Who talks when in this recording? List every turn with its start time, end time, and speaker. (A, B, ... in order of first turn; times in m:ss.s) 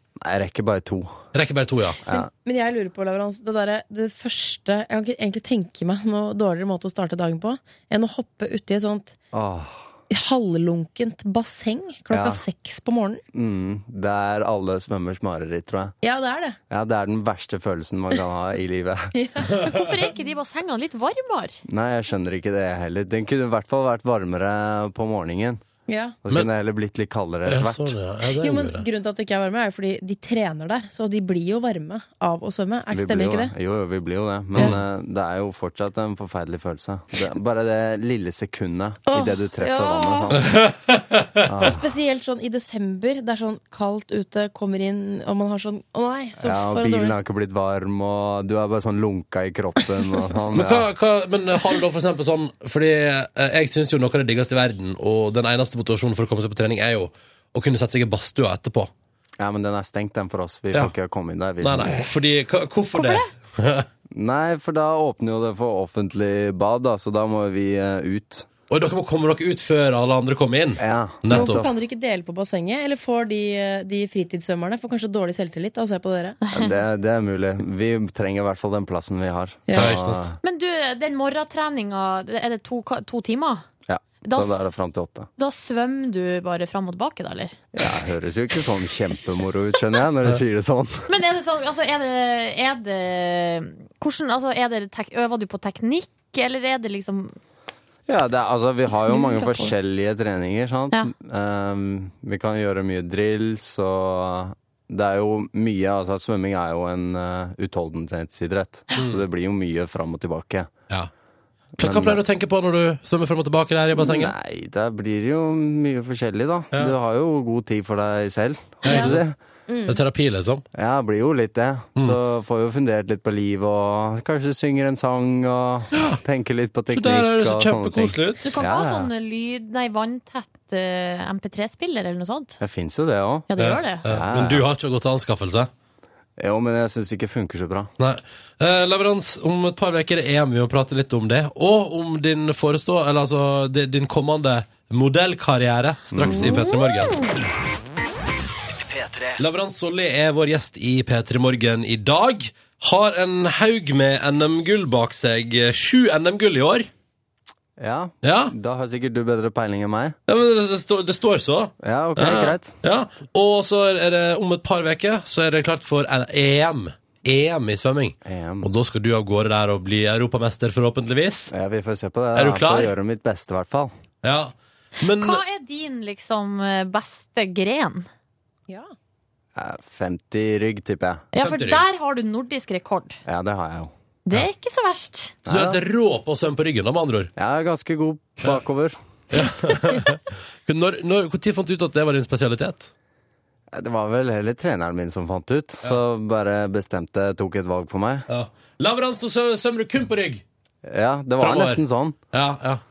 0:00.2-0:01.2 A
0:01.3-0:02.0 B
0:02.1-0:09.2 C
0:09.3-0:09.9 A
0:10.1-0:13.2 C
0:12.1-0:12.4 A
0:13.3-0:15.9 A
0:16.0-0:16.6 C
0:16.7-0:19.1 A
0:19.2-0:19.6 C
0:19.6-0:21.6 D
0:21.7-0:25.6 A
0:25.9-0:26.2 C
0:26.2-0:27.9 A
0:27.4-0:28.8 B
0:28.4-0:33.5 C
0:32.9-0:40.6 A
0:39.1-0:40.4 C
0:40.4-0:41.5 B
0:41.4-0:41.9 A
0:41.6-0:47.2 C
0:46.4-0:50.9 A
0:50.5-0:58.9 B
0:59.4-1:02.0 A
1:01.6-1:03.8 B
1:02.9-1:03.3 D
1:04.1-1:08.5 A
1:08.7-1:11.6 B
1:10.8-1:11.7 A
1:11.3-1:16.4 C
1:16.4-1:16.7 D
1:16.5-1:20.4 A
1:19.7-1:19.9 C
1:19.7-1:20.2 B
1:20.4-1:23.6 D
1:23.9-1:25.3 A
1:24.2-1:24.6 D
1:25.4-1:27.6 D
1:27.8-1:31.1 A
1:31.1-1:37.4 D
1:38.1-1:50.7 A
1:49.0-1:49.2 B
1:51.8-1:52.2 A
1:51.8-1:54.3 B
1:53.9-1:59.3 A
1:58.8-1:59.2 B
1:58.9-1:59.2 C
1:59.7-2:00.0 C
1:59.9-2:00.6 B
2:00.7-2:09.1 A
2:05.9-2:06.2 B
2:06.9-2:08.4 B
2:08.4-2:12.6 D
2:12.6-2:13.5 A
2:13.5-2:14.0 D
2:13.6-2:15.7 B
2:14.0-2:14.6 A
2:16.4-2:17.9 A
2:18.0-2:27.2 B
2:26.1-2:26.7 A
2:29.0-2:36.9 B
2:37.8-2:40.2 A
2:38.2-2:38.5 B
2:40.3-2:51.5 B
2:41.8-2:42.8 A
2:48.2-2:48.7 A
2:51.5-2:53.9 A
2:52.3-2:52.9 B
2:54.2-2:55.4 B
2:55.2-2:58.1 D
2:59.6-3:01.3 A
3:01.3-3:03.2 D
3:01.4-3:01.8 B
3:03.2-3:03.9 A
3:04.2-3:05.3 D
3:05.4-3:05.8 A
3:05.5-3:07.3 B
3:07.4-3:09.0 A
3:09.3-3:12.9 B
3:13.7-3:18.2 A
3:18.3-3:20.4 B
3:20.8-3:22.2 A
3:21.4-3:22.8 B